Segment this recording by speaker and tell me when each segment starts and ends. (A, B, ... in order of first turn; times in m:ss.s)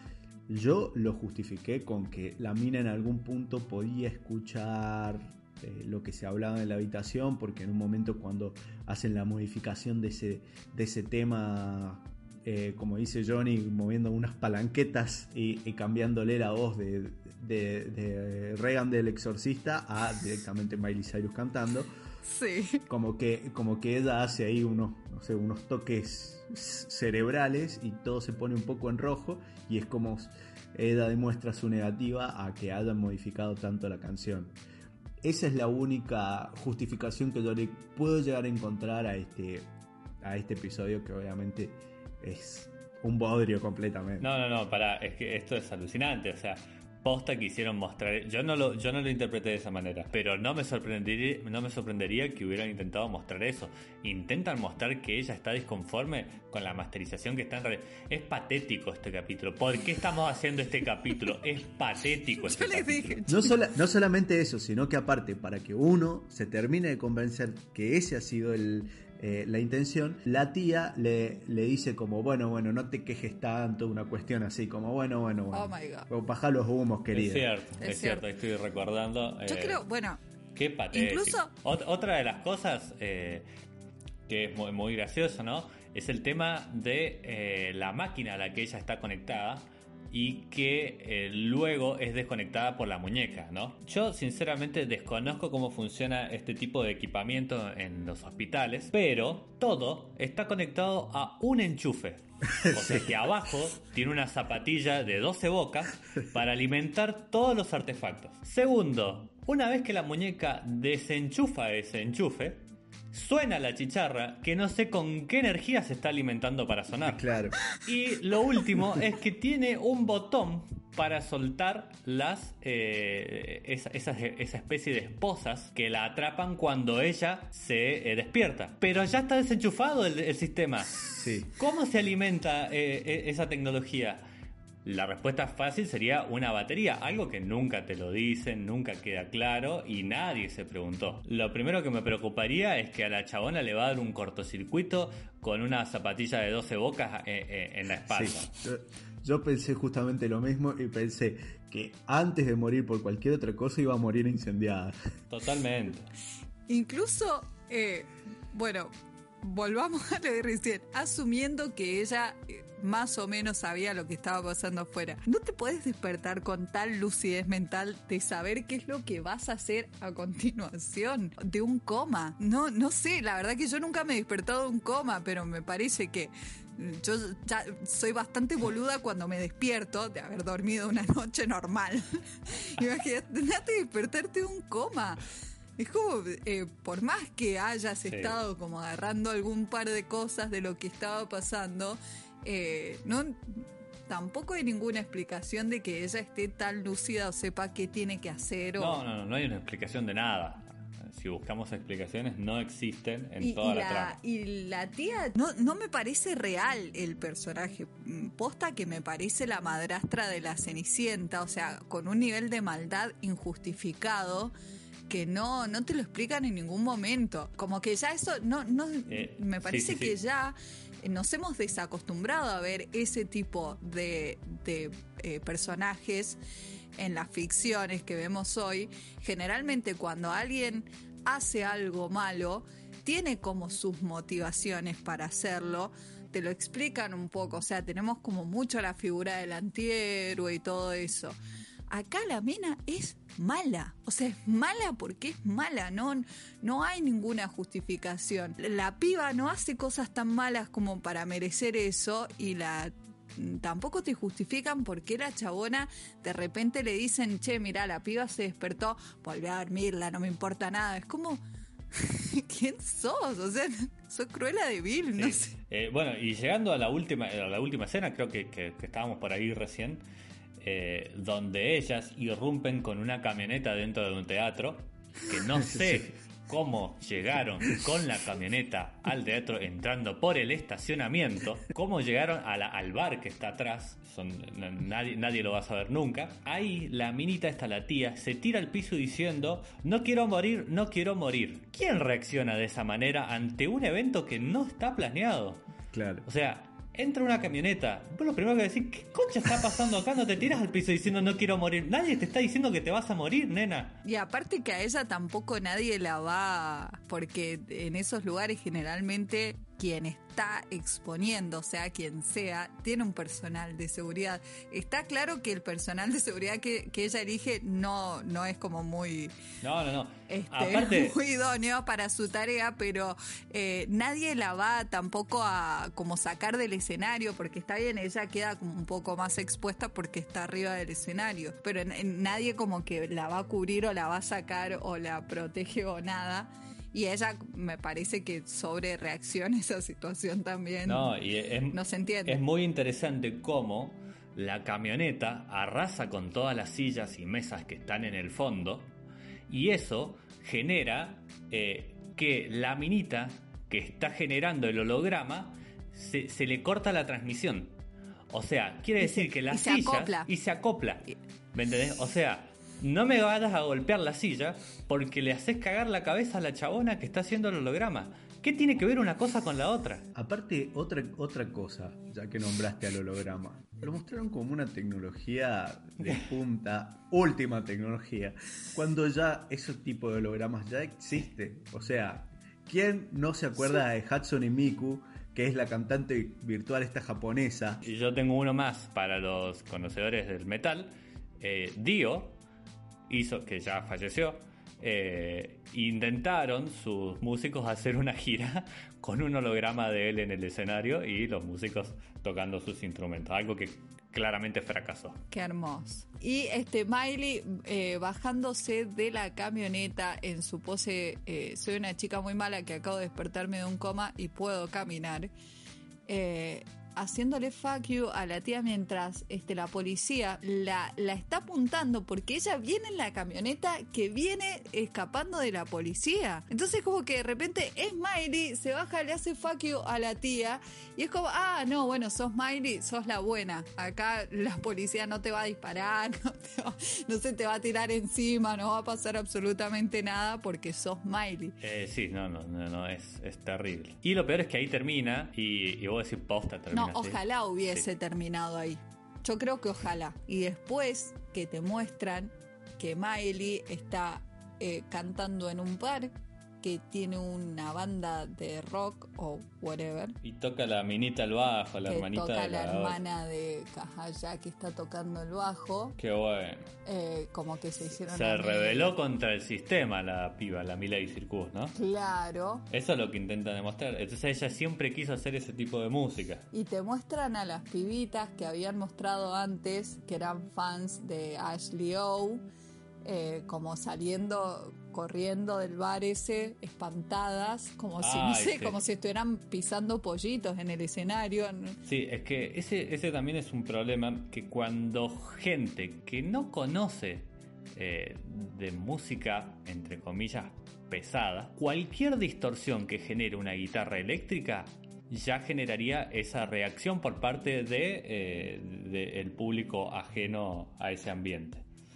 0:00.5-0:21.9 A
0:22.2-0:22.8 B
0:22.9-0:34.6 A
0:35.2-0:39.7 A
0:40.2-0:44.3 A
0:44.2-1:03.2 C
1:02.4-1:03.6 B
1:03.3-1:17.5 A
1:15.5-1:16.1 B
1:17.1-1:19.8 C
1:17.8-1:18.2 B
1:19.4-1:20.2 B
1:20.5-1:23.4 C
1:20.9-1:21.5 B
1:24.3-1:57.2 C
1:42.6-1:43.0 A
1:57.0-1:57.6 A
1:57.8-2:14.2 C
2:11.2-2:11.5 A
2:14.8-2:28.5 C
2:28.1-2:35.0 A
2:35.3-2:36.1 C
2:36.7-3:05.2 B
3:05.8-3:19.0 B
3:08.0-3:08.4 C
3:18.8-3:24.2 C
3:23.4-3:34.5 B
3:35.1-3:46.4 B
3:39.1-3:40.2 C
3:47.0-4:01.4 B
4:01.9-4:21.4 B
4:21.9-4:25.5 B
4:25.2-4:30.0 C
4:30.6-4:55.6 C
4:35.7-4:36.1 A
4:55.9-4:56.2 A
4:56.2-5:04.0 C
5:04.0-5:19.3 B
5:19.6-5:21.2 C
5:20.3-5:41.1 B
5:40.8-5:48.9 C
5:41.7-5:42.4 B
5:49.5-5:57.8 C
5:58.3-6:10.0 C
5:59.0-6:00.3 B
6:10.1-6:27.8 A
6:27.8-6:32.4 C
6:33.1-6:45.2 C
6:45.3-6:55.3 B
6:56.1-7:21.6 B
7:21.6-7:27.9 C
7:26.7-7:40.2 B
7:40.2-7:43.0 C
7:41.9-7:45.9 B
7:46.0-7:46.7 C
7:46.8-7:48.9 B
7:48.0-7:51.7 C
7:51.7-7:52.6 B
7:52.7-7:56.4 C
7:56.5-8:02.4 B
8:03.0-8:11.8 B
8:08.0-8:08.8 C
8:11.8-8:31.6 C